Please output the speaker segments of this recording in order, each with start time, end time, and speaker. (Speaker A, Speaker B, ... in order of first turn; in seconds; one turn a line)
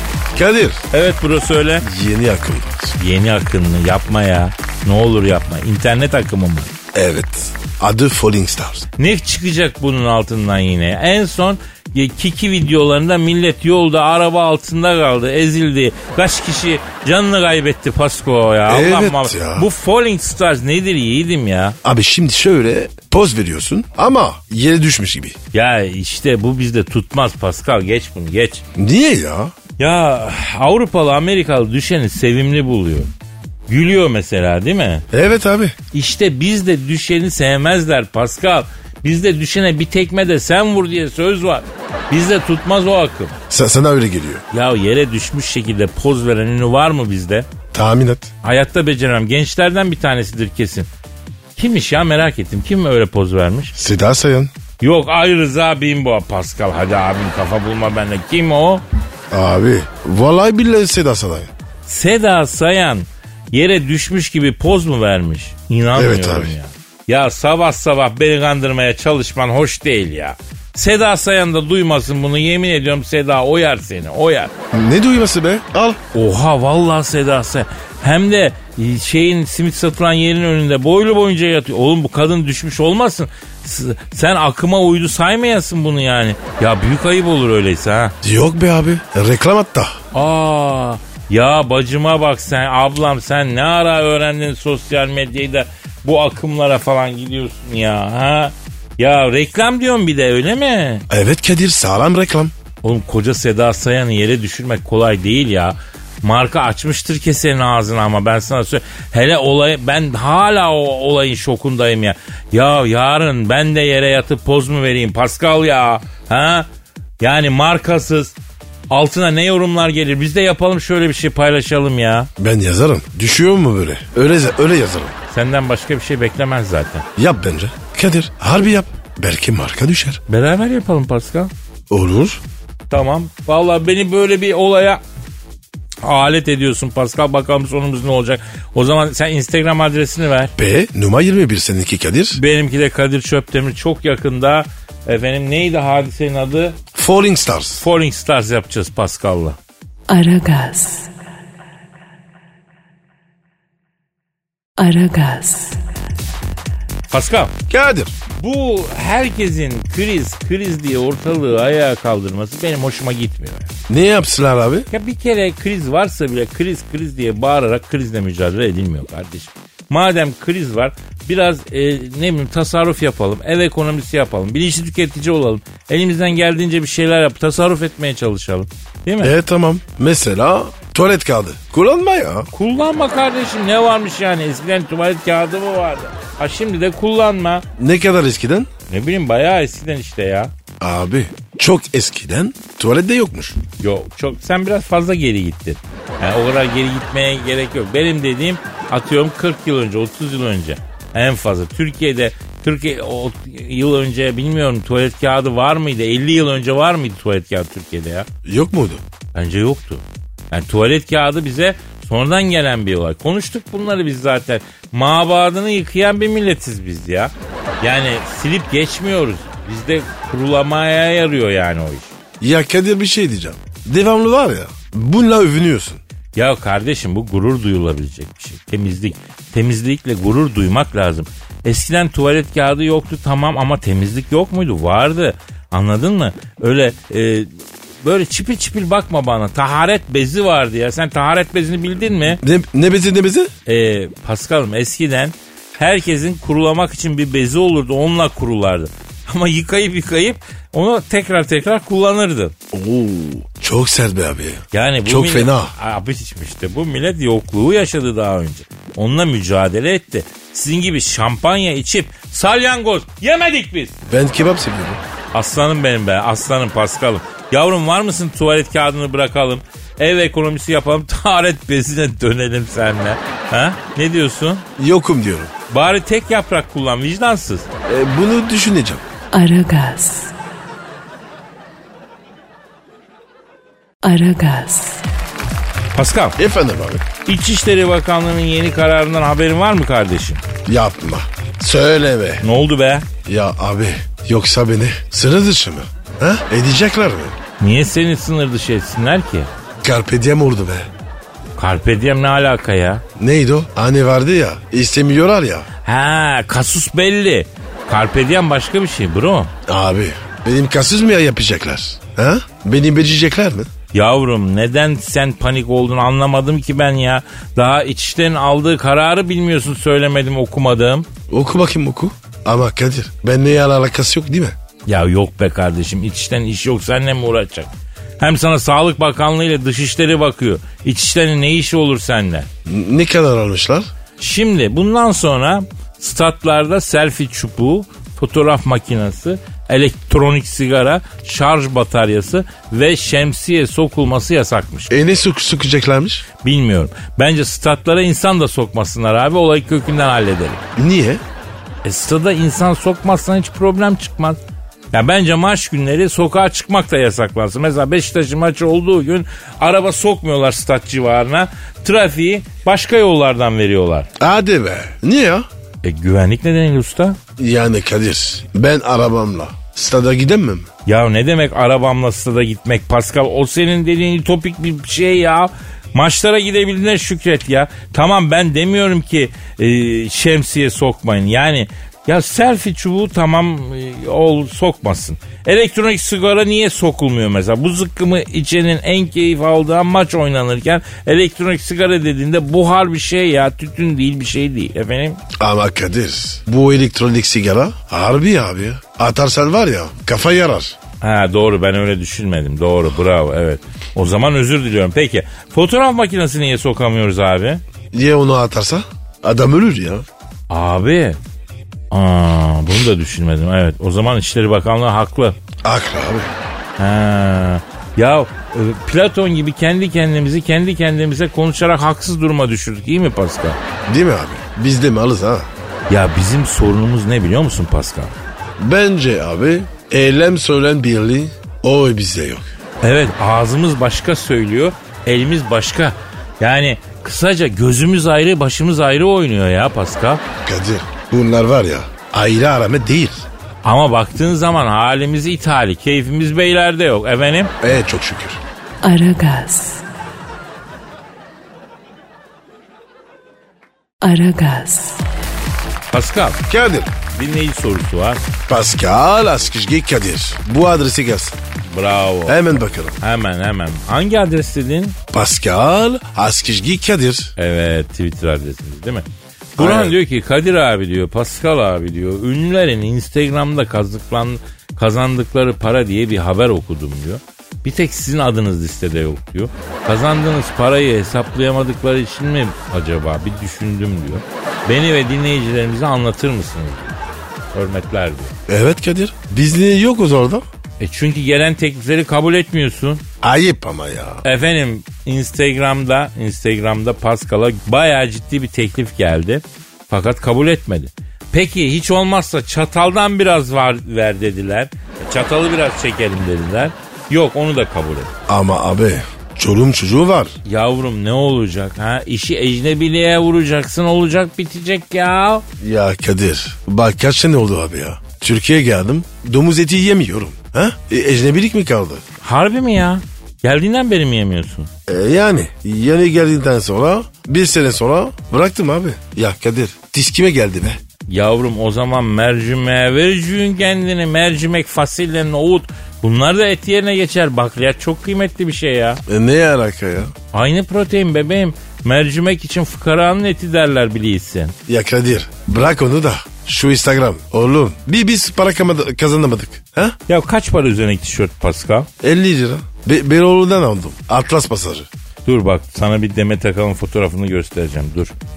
Speaker A: 0.3-0.8
Speaker B: 0.9-1.8
Speaker A: 1.8-3.0
Speaker B: 3.0-6.7
Speaker A: 6.9-8.8
Speaker B: 9.0-21.8
Speaker A: 18.7-19.7
Speaker A: 21.8-25.4
Speaker B: 25.5-28.6
Speaker A: 28.8-29.5
Speaker B: 29.8-33.1
Speaker B: 33.7-35.0
Speaker A: 35.1-35.8
Speaker B: 35.9-43.4
Speaker A: 43.5-44.4
Speaker B: 44.5-47.5
Speaker A: 47.7-48.3
Speaker B: 48.4-50.9
Speaker B: 51.5-53.7
Speaker A: 53.7-54.5
Speaker B: 54.8-58.8
Speaker A: 59.3-61.5
Speaker B: 61.9-74.5
Speaker A: 66.0-66.5
Speaker A: 74.7-76.0
Speaker B: 76.1-88.1
Speaker A: 88.2-90.0
Speaker B: 90.1-101.0
Speaker A: 101.1-102.5
Speaker B: 102.8-116.7
Speaker B: 117.2-118.3
Speaker B: 118.9-122.3
Speaker A: 122.4-125.2
Speaker B: 125.3-127.0
Speaker A: 127.2-130.2
Speaker B: 130.3-131.5
Speaker A: 131.9-132.4
Speaker B: 132.9-135.0
Speaker B: 136.0-140.5
Speaker A: 140.6-142.4
Speaker B: 142.3-146.8
Speaker A: 146.9-147.8
Speaker B: 147.8-149.6
Speaker C: 150.1-151.1
Speaker C: 154.8-155.8
Speaker B: 157.1-157.5
Speaker A: 157.7-158.1
Speaker B: 158.4-163.7
Speaker A: 163.9-164.9
Speaker B: 164.9-179.3
Speaker A: 179.2-182.5
Speaker B: 182.5-187.6
Speaker A: 187.8-188.7
Speaker B: 188.9-190.5
Speaker A: 190.8-193.6
Speaker B: 193.8-208.3
Speaker A: 208.4-209.0
Speaker B: 209.3-222.1
Speaker A: 222.4-226.0
Speaker B: 226.3-237.5
Speaker B: 238.0-242.4
Speaker A: 242.4-243.5
Speaker B: 243.7-252.5
Speaker A: 252.7-255.7
Speaker B: 254.7-264.0
Speaker A: 264.1-265.0
Speaker B: 265.3-274.6
Speaker A: 274.8-275.5
Speaker B: 275.7-277.7
Speaker A: 277.9-279.0
Speaker C: 279.3-280.3
Speaker C: 284.0-285.0
Speaker B: 285.9-286.4
Speaker A: 286.4-287.1
Speaker B: 287.2-290.4
Speaker A: 290.6-292.4
Speaker B: 292.4-293.1
Speaker A: 293.2-297.4
Speaker B: 297.6-299.5
Speaker A: 299.8-300.9
Speaker B: 301.6-303.0
Speaker A: 303.2-305.7
Speaker B: 305.8-309.5
Speaker A: 309.7-313.7
Speaker B: 313.9-321.1
Speaker A: 321.3-324.6
Speaker B: 324.9-332.5
Speaker A: 332.6-333.9
Speaker B: 334.2-344.9
Speaker A: 344.9-346.3
Speaker B: 346.4-350.6
Speaker A: 350.8-351.2
Speaker B: 351.8-354.4
Speaker B: 354.9-364.1
Speaker A: 364.2-365.5
Speaker B: 365.8-367.2
Speaker A: 367.4-370.7
Speaker B: 370.9-395.2
Speaker A: 395.4-400.8
Speaker B: 401.0-407.6
Speaker A: 407.9-410.1
Speaker B: 410.5-411.2
Speaker B: 411.9-415.4
Speaker A: 415.6-416.3
Speaker B: 416.8-423.6
Speaker A: 423.9-425.5
Speaker B: 425.9-428.1
Speaker A: 428.6-432.4
Speaker B: 432.8-440.2
Speaker A: 440.4-443.3
Speaker B: 443.6-447.7
Speaker A: 447.6-448.4
Speaker C: 448.8-449.8
Speaker C: 454.0-455.0
Speaker B: 455.9-456.4
Speaker A: 456.5-456.9
Speaker B: 457.1-458.2
Speaker A: 458.5-461.4
Speaker B: 461.7-462.4
Speaker A: 462.2-463.0
Speaker B: 463.0-465.0
Speaker A: 465.1-467.3
Speaker B: 467.4-487.0
Speaker A: 469.6-469.9
Speaker B: 487.5-488.3
Speaker A: 488.5-490.4
Speaker B: 490.8-493.0
Speaker A: 493.2-494.2
Speaker B: 494.2-508.1
Speaker A: 508.3-510.3
Speaker B: 510.4-515.4
Speaker A: 515.6-522.0
Speaker B: 522.2-524.7
Speaker A: 524.9-530.8
Speaker B: 531.1-539.0
Speaker A: 539.0-540.1
Speaker B: 540.3-544.5
Speaker A: 544.7-550.0
Speaker B: 550.1-551.9
Speaker A: 552.0-554.9
Speaker B: 555.2-558.1